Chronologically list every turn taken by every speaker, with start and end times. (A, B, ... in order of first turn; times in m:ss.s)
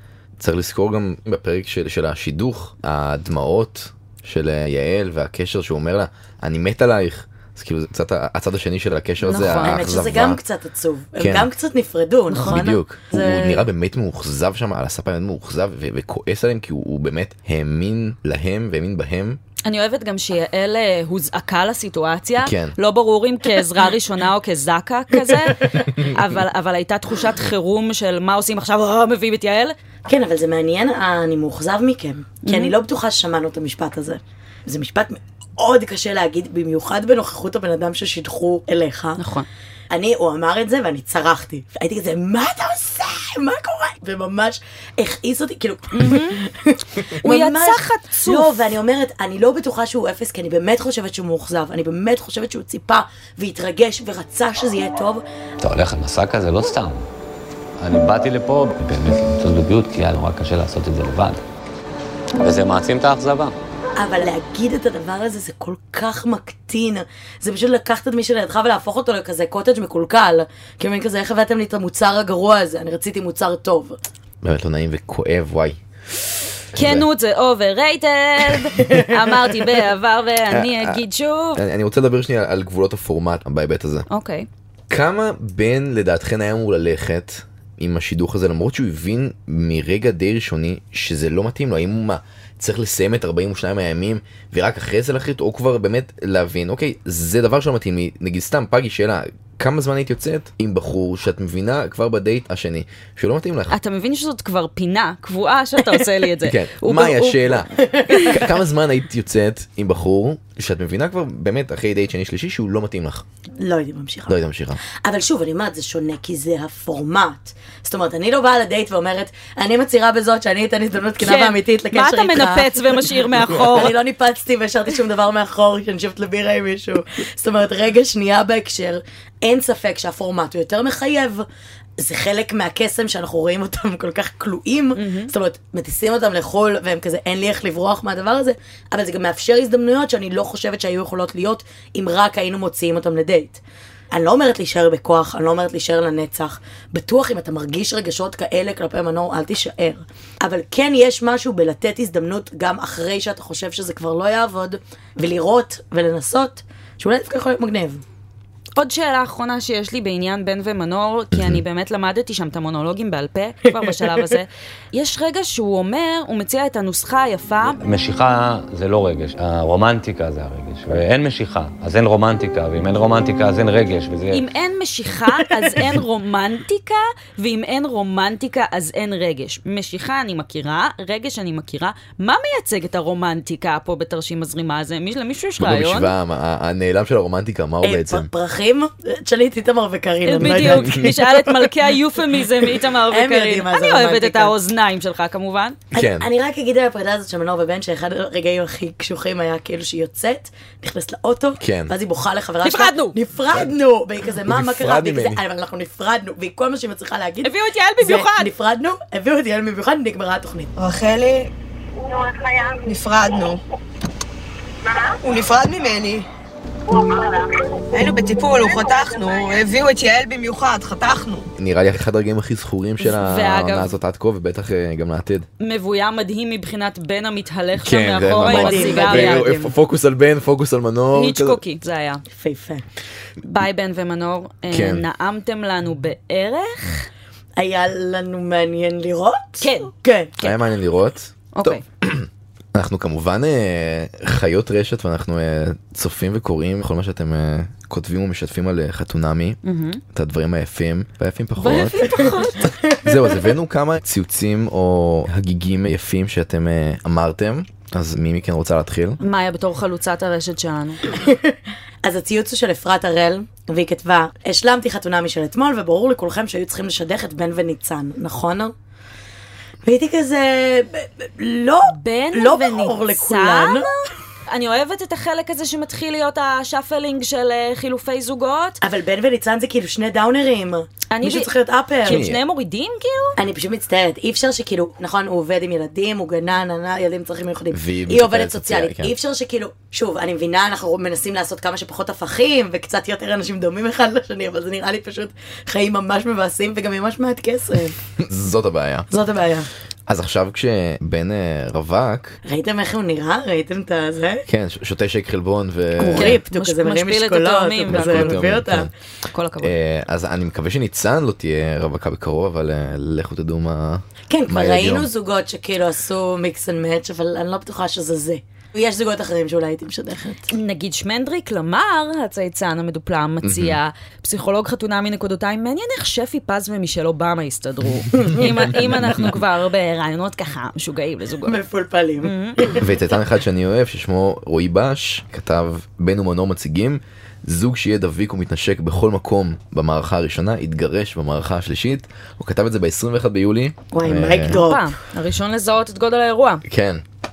0:00.4-0:10.4 A
0:09.2-0:09.8 B
0:09.5-0:13.6 C
0:11.2-0:11.5 A
0:12.3-0:12.6 B
0:12.4-0:19.4 A
0:19.6-0:29.7 B
0:22.4-0:22.7 A
0:30.1-0:39.2 C
0:32.4-0:32.7 B
0:39.2-0:39.5 B
0:39.9-0:55.2 C
0:45.9-0:46.4 B
0:47.2-0:48.7 B
0:55.6-0:57.1 D
0:57.8-1:01.4 D
1:02.4-1:03.6 D
1:04.0-1:14.0 C
1:14.4-1:15.8 A
1:16.7-1:17.0 A
1:16.7-1:21.6 B
1:20.5-1:21.0 A
1:21.5-1:24.0 A
1:24.1-1:24.5 B
1:24.9-1:43.8 A
1:43.7-1:48.4 B
1:46.4-1:53.2 A
1:47.8-1:48.3 C
1:53.6-2:11.4 C
1:54.3-1:54.8 A
2:01.2-2:04.0 B
2:12.0-2:23.6 C
2:15.0-2:15.3 B
2:24.1-2:38.0 C
2:38.8-2:47.8 B
2:41.3-2:41.6 A
2:47.7-2:54.4 D
2:54.3-3:06.1 B
3:05.6-3:08.3 A
3:07.8-3:11.4 C
3:10.2-3:15.8 B
3:10.5-3:11.1 A
3:13.1-3:14.5 C
3:15.9-3:16.2 A
3:15.9-3:30.7 C
3:21.6-3:21.9 A
3:22.6-3:23.2 B
3:24.4-3:25.4 A
3:27.4-3:28.5 B
3:30.8-3:31.5 E
3:32.3-3:33.6 E
3:35.2-3:36.3 E
3:37.0-3:41.5 E
3:41.6-3:45.5 A
3:43.0-3:43.9 B
3:45.6-3:49.4 B
3:47.8-3:51.6 A
3:48.4-3:49.7 C
3:51.1-3:52.2 B
3:52.3-3:52.8 C
3:53.4-3:57.1 B
3:54.7-3:55.0 A
3:57.6-4:00.3 C
3:59.6-3:59.9 B
4:00.4-4:09.6 A
4:01.5-4:01.8 B
4:09.6-4:10.0 B
4:10.1-4:12.3 A
4:11.6-4:12.7 B
4:12.7-4:13.0 C
4:13.0-4:19.2 A
4:19.2-4:21.0 B
4:21.1-4:28.7 C
4:29.8-4:33.9 C
4:31.9-4:33.9 B
4:34.5-4:38.8 B
4:38.8-4:42.2 C
4:41.1-4:43.4 B
4:42.0-4:42.4 A
4:43.4-4:57.9 C
4:47.7-4:49.1 A
4:58.2-4:59.1 A
4:59.1-4:59.7 C
5:00.1-5:02.4 A
5:02.4-5:04.4 C
5:04.5-5:06.4 A
5:06.0-5:08.9 C
5:06.2-5:08.6 B
5:07.9-5:08.9 A
5:09.3-5:09.7 B
5:09.6-5:15.1 A
5:14.3-5:20.5 C
5:20.5-5:31.6 B
5:23.4-5:23.8 A
5:28.1-5:28.5 C
5:31.4-5:32.8 C
5:32.2-5:32.7 B
5:32.8-5:44.6 A
5:43.9-5:44.9 C
5:44.5-5:46.6 B
5:46.6-5:47.0 A